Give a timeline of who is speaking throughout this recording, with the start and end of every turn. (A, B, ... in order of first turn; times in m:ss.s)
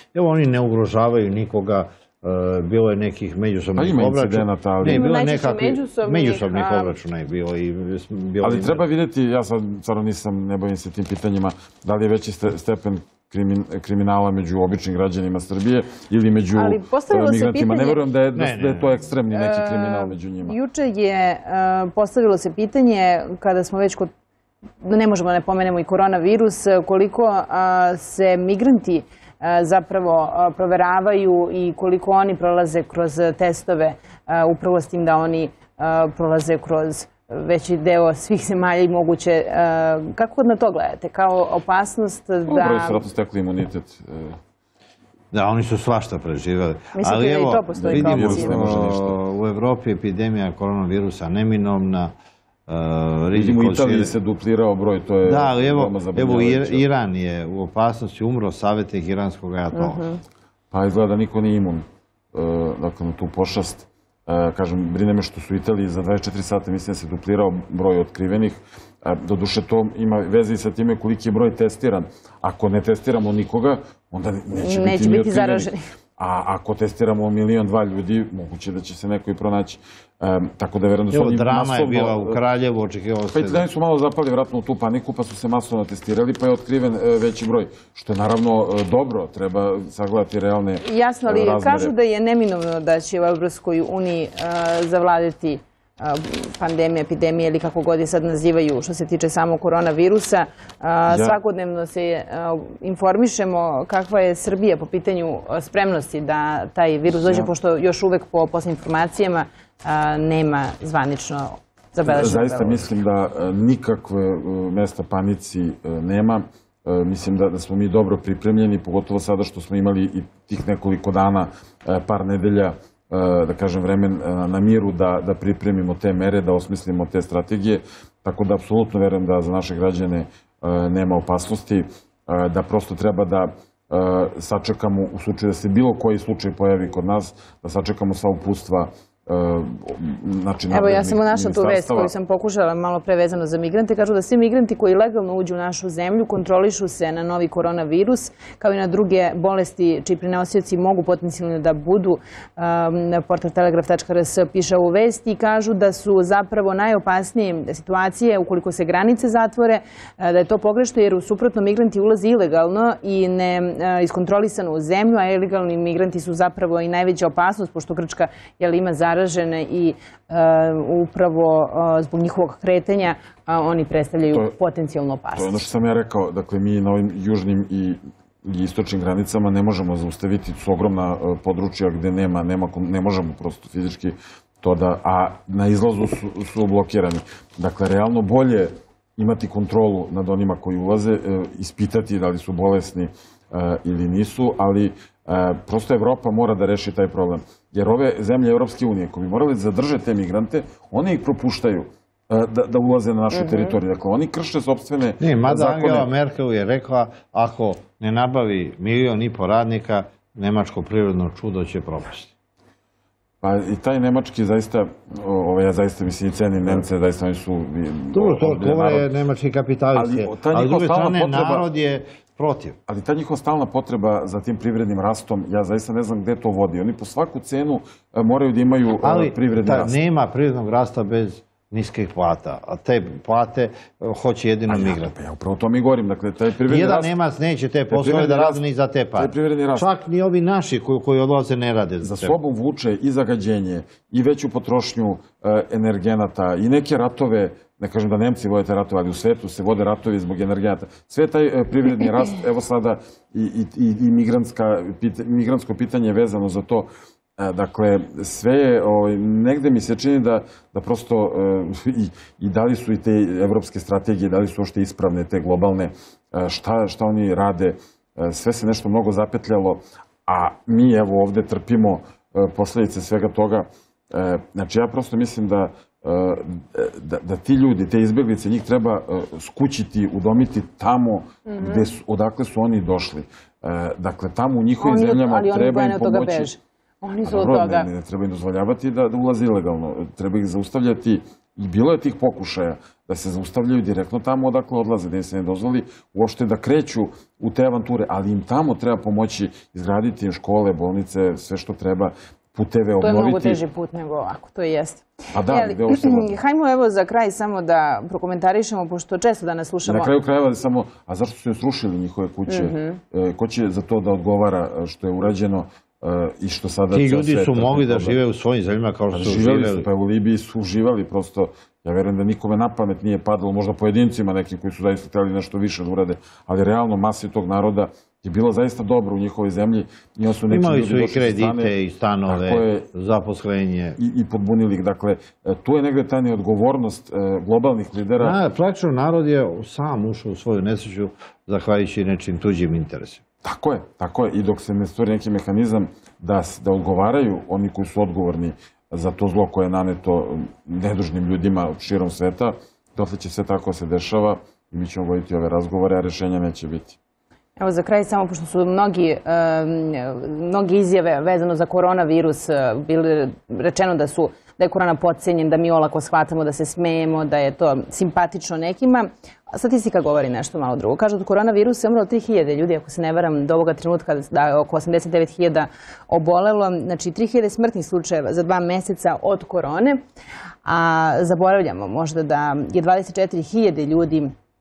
0:00.1-0:08.8 A
0:03.8-0:05.1 B
0:04.9-0:07.0 C
0:08.4-0:20.6 B
0:16.6-0:18.0 C
0:18.3-0:19.1 A
0:19.3-0:24.1 C
0:24.8-0:43.0 C
0:42.5-0:44.4 B
0:45.3-0:52.1 A
0:47.0-0:48.6 C
0:47.8-0:49.2 B
0:52.7-0:54.2 A
0:53.3-0:56.8 B
0:55.2-1:00.0 A
0:59.7-1:00.2 C
1:00.7-1:22.4 B
1:14.5-1:15.8 C
1:21.1-1:23.7 A
1:23.3-1:31.9 B
1:30.8-1:52.8 C
1:41.1-1:41.4 B
1:47.1-1:47.5 B
1:52.0-2:22.1 B
2:20.7-2:55.6 C
2:55.3-3:26.1 B
3:23.3-3:23.8 C
3:25.2-3:32.3 A
3:33.4-3:39.1 B
3:36.6-3:36.9 A
3:38.1-3:42.8 A
3:39.9-3:41.7 B
3:42.9-3:50.0 B
3:49.0-3:55.1 A
3:54.7-3:57.1 B
3:56.7-4:02.4 A
3:57.9-3:58.6 B
3:59.2-3:59.9 B
4:02.0-4:46.5 B
4:41.5-4:41.9 C
4:44.8-4:47.9 C
4:47.2-5:03.6 B
5:03.0-5:10.1 C
5:05.3-5:06.4 B
5:09.9-5:18.2 B
5:12.5-5:13.0 C
5:16.9-5:19.9 A
5:19.1-5:31.7 B
5:30.5-5:34.0 A
5:32.3-5:32.9 B
5:34.0-5:38.4 B
5:38.2-5:43.2 A
5:43.4-5:57.0 B
5:57.6-6:20.0 C
6:20.6-6:24.3 C